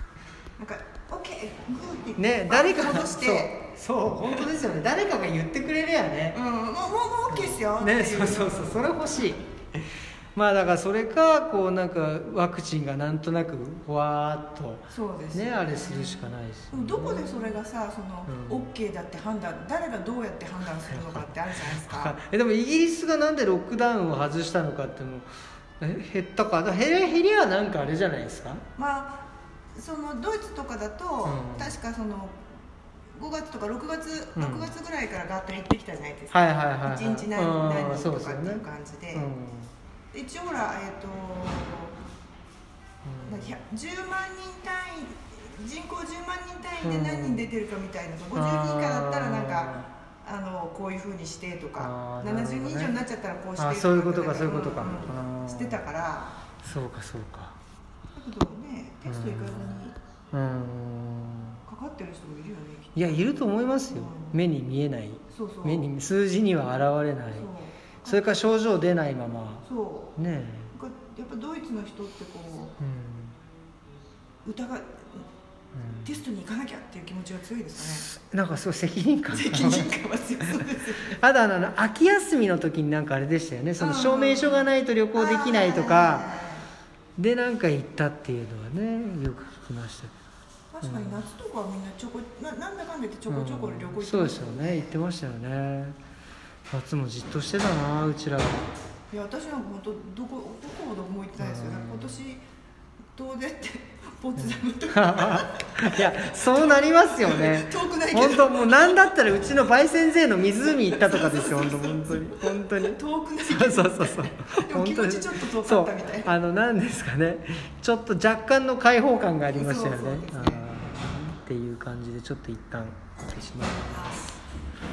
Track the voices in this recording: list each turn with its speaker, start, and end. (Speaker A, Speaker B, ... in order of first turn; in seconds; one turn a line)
Speaker A: 0.6-3.5
Speaker B: 2.2-6.4
Speaker A: 6.3-8.9
Speaker B: 7.3-17.6
Speaker A: 14.9-22.2
Speaker B: 18.3-18.7
Speaker B: 20.9-28.6
Speaker A: 28.8-32.5
Speaker B: 31.2-31.8
Speaker A: 33.1-39.3
Speaker B: 34.4-34.7
Speaker B: 36.3-39.7
Speaker A: 40.1-42.0
Speaker B: 43.0-43.5
Speaker A: 43.2-56.4
Speaker B: 46.8-47.5
Speaker B: 48.3-49.9
Speaker B: 51.8-53.0
Speaker B: 53.6-55.8
Speaker B: 56.6-57.6
Speaker A: 58.1-60.0
Speaker B: 59.0-61.6
Speaker A: 61.7-63.2
Speaker B: 63.0-67.5
Speaker A: 63.9-64.4
Speaker A: 65.3-65.9
Speaker A: 67.3-68.4
Speaker B: 68.0-69.6
Speaker A: 69.6-70.2
Speaker B: 70.2-70.7
Speaker A: 70.7-72.8
Speaker B: 72.8-73.4
Speaker A: 74.5-75.3
Speaker B: 75.7-76.2
Speaker A: 76.0-78.1
Speaker B: 77.8-80.0
Speaker A: 79.3-81.2
Speaker B: 80.6-86.3
Speaker A: 83.8-86.7
Speaker B: 87.2-90.1
Speaker A: 90.7-95.0
Speaker B: 90.8-91.2
Speaker B: 93.3-96.0
Speaker B: 96.7-98.7
Speaker A: 99.1-102.4
Speaker B: 101.4-102.2
Speaker A: 103.2-109.2
Speaker B: 104.4-124.4
Speaker A: 110.8-116.3
Speaker A: 119.5-120.8
Speaker A: 123.9-124.3